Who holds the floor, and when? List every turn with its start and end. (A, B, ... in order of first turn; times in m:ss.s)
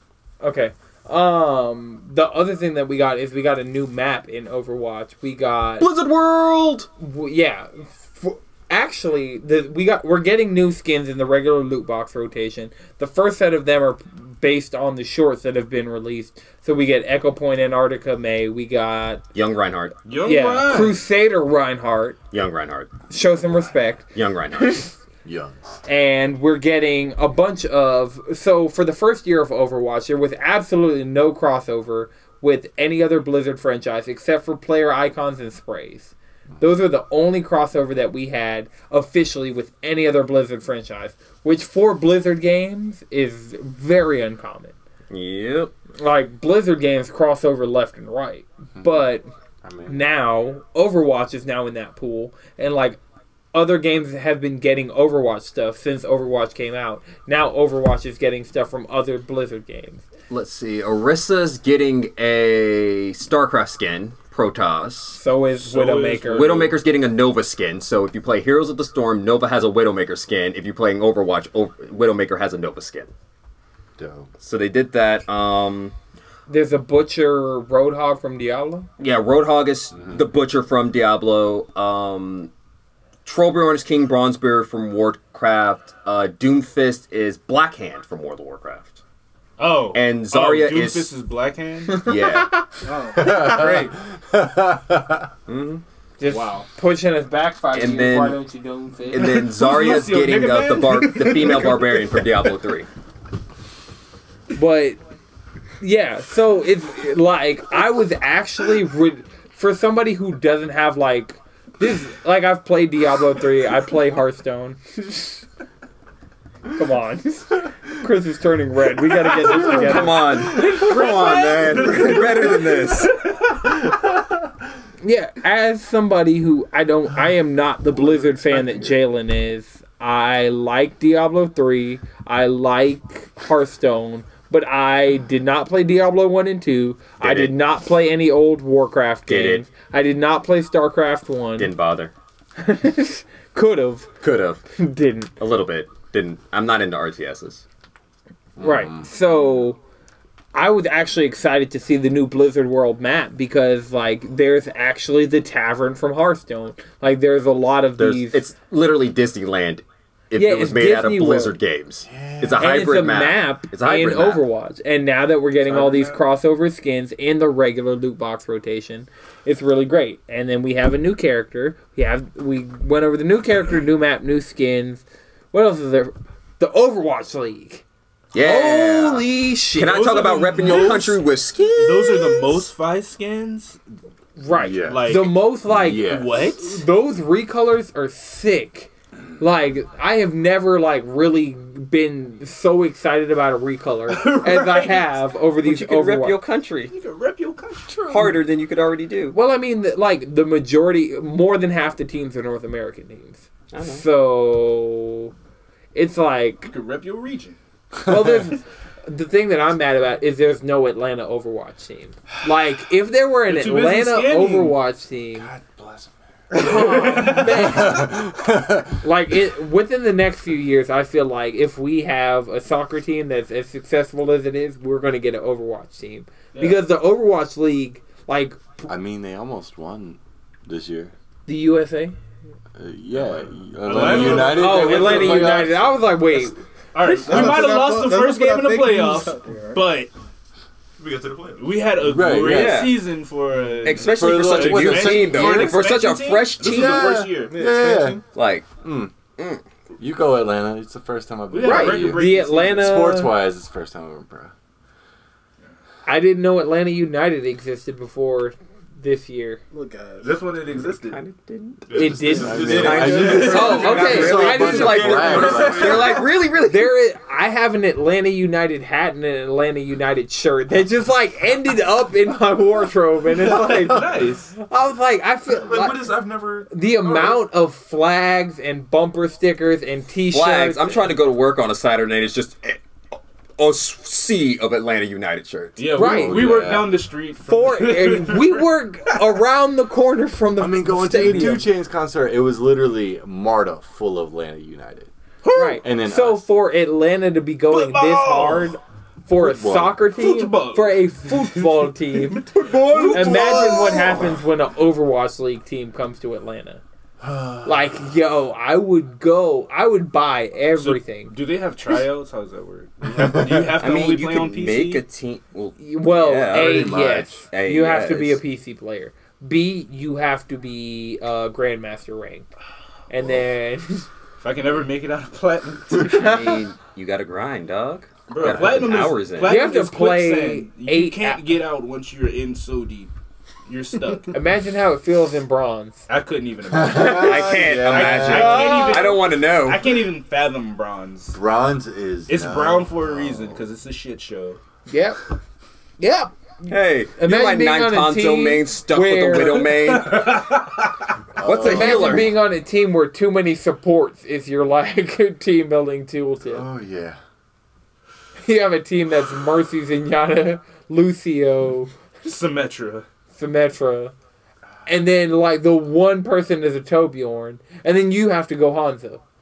0:00.4-0:05.9 A
0:05.8-0:06.9 B
0:07.0-0:19.2 A
0:19.3-0:20.0 B
0:20.0-0:21.0 C
0:20.2-0:22.2 A
0:22.3-0:23.1 B
0:23.1-0:24.9 A
0:24.1-0:24.8 B
0:25.2-0:25.6 D
0:25.8-0:44.7 A
0:45.1-0:45.7 B
0:46.0-0:49.3 A
0:48.8-0:49.0 D
0:49.6-0:50.0 D
0:49.9-0:53.0 A
0:53.5-1:00.0 A
1:00.3-1:05.2 B
1:05.1-1:06.6 A
1:05.6-1:06.8 C
1:06.3-1:13.1 B
1:14.0-1:14.3 D
1:14.4-1:15.9 B
1:16.5-1:18.9 A
1:19.0-1:22.5 B
1:19.9-1:20.2 D
1:23.2-1:29.0 B
1:29.6-1:32.1 C
1:29.9-1:31.1 B
1:32.0-1:32.6 B
1:32.8-1:33.7 E
1:32.9-1:33.9 C
1:33.2-1:35.3 D
1:35.5-1:35.8 B
1:36.2-1:39.4 A
1:36.2-1:36.6 C
1:37.7-1:38.4 B
1:39.1-1:42.9 B
1:39.1-1:42.3 C
1:44.5-1:45.0 A
1:45.8-1:55.3 A
1:56.7-2:02.3 A
1:59.3-2:03.2 B
2:00.8-2:01.6 C
2:05.0-2:21.7 A
2:17.2-2:17.5 B
2:19.3-2:19.6 B
2:21.6-2:22.1 B
2:22.6-2:24.1 A
2:24.2-2:24.6 B
2:24.7-2:25.3 A
2:25.4-2:27.6 B
2:28.6-2:29.1 D
2:28.6-2:29.8 A
2:30.5-2:38.4 A
2:38.0-2:44.4 B
2:40.3-2:41.6 A
2:42.0-2:42.7 D
2:42.6-2:57.8 A
2:58.3-3:02.6 B
2:58.4-3:00.1 A
2:59.9-3:03.8 C
3:04.4-3:16.4 A
3:04.5-3:06.5 D
3:04.7-3:06.8 C
3:14.1-3:15.1 C
3:15.6-3:16.9 B
3:16.9-3:18.4 C
3:18.1-3:19.4 B
3:19.3-3:25.3 A
3:23.7-3:24.0 B
3:25.9-3:26.7 A
3:26.7-3:27.6 C
3:28.0-3:35.5 A
3:33.5-3:34.8 C
3:35.7-3:36.6 D
3:36.5-3:37.9 C
3:36.5-3:38.2 A
3:37.4-3:39.0 D
3:38.8-3:48.6 A
3:46.5-3:46.8 C
3:48.8-3:51.1 D
3:51.5-3:52.2 A
3:52.8-3:56.0 D
3:53.1-3:55.6 C
3:54.0-3:57.4 A
3:56.9-4:00.1 C
3:57.0-3:59.8 E
4:01.0-4:01.8 F
4:01.6-4:07.5 C
4:02.0-4:02.9 D
4:02.4-4:03.1 B
4:03.8-4:07.2 B
4:04.0-4:05.8 D
4:06.6-4:08.2 D
4:07.1-4:08.2 E
4:08.3-4:08.7 B
4:08.8-4:09.1 D
4:09.4-4:09.6 B
4:10.0-4:14.5 D
4:11.5-4:13.2 C
4:11.6-4:13.4 A
4:16.0-4:19.6 A
4:19.7-4:20.3 E
4:20.2-4:21.2 C
4:20.9-4:21.9 B
4:21.9-4:26.0 F
4:21.9-4:41.0 A
4:22.1-4:26.2 D
4:22.6-4:24.6 C
4:22.7-4:26.9 B
4:25.2-4:25.7 C
4:33.4-4:34.5 C
4:35.5-4:36.7 F
4:40.3-4:42.8 B
4:43.6-4:45.8 B
4:45.8-4:48.7 C
4:45.9-4:46.7 A
4:46.0-4:47.0 D
4:47.4-4:51.7 A
4:50.6-4:55.1 D
4:55.4-4:55.8 C
4:55.5-5:02.5 A
4:55.8-4:56.5 D
4:57.7-4:58.7 C
4:59.4-5:00.0 D
5:00.1-5:04.3 C
5:02.9-5:04.3 D
5:03.0-5:06.8 A
5:07.2-5:07.7 D
5:07.6-5:11.3 A
5:10.7-5:15.0 C
5:13.6-5:18.4 B
5:15.8-5:22.5 A
5:16.5-5:17.4 D
5:23.1-5:24.0 A
5:24.4-5:26.4 C
5:26.0-5:29.6 B
5:28.3-5:33.1 C
5:29.4-5:31.4 A
5:33.6-5:34.4 C
5:34.3-5:36.1 A
5:36.1-5:41.4 C
5:36.7-5:38.8 D
5:37.1-5:39.9 B
5:38.3-5:39.2 A
5:41.3-5:43.6 D
5:42.3-5:44.6 C
5:44.9-5:45.2 A
5:46.0-5:49.8 A
5:46.7-5:50.5 B
5:49.8-5:50.9 C
5:51.4-5:52.3 D
5:51.4-5:52.3 B
5:51.6-5:56.6 A
5:56.5-5:57.2 D
5:58.4-6:01.9 A
6:02.2-6:03.1 C
6:03.3-6:04.1 A
6:04.8-6:09.2 A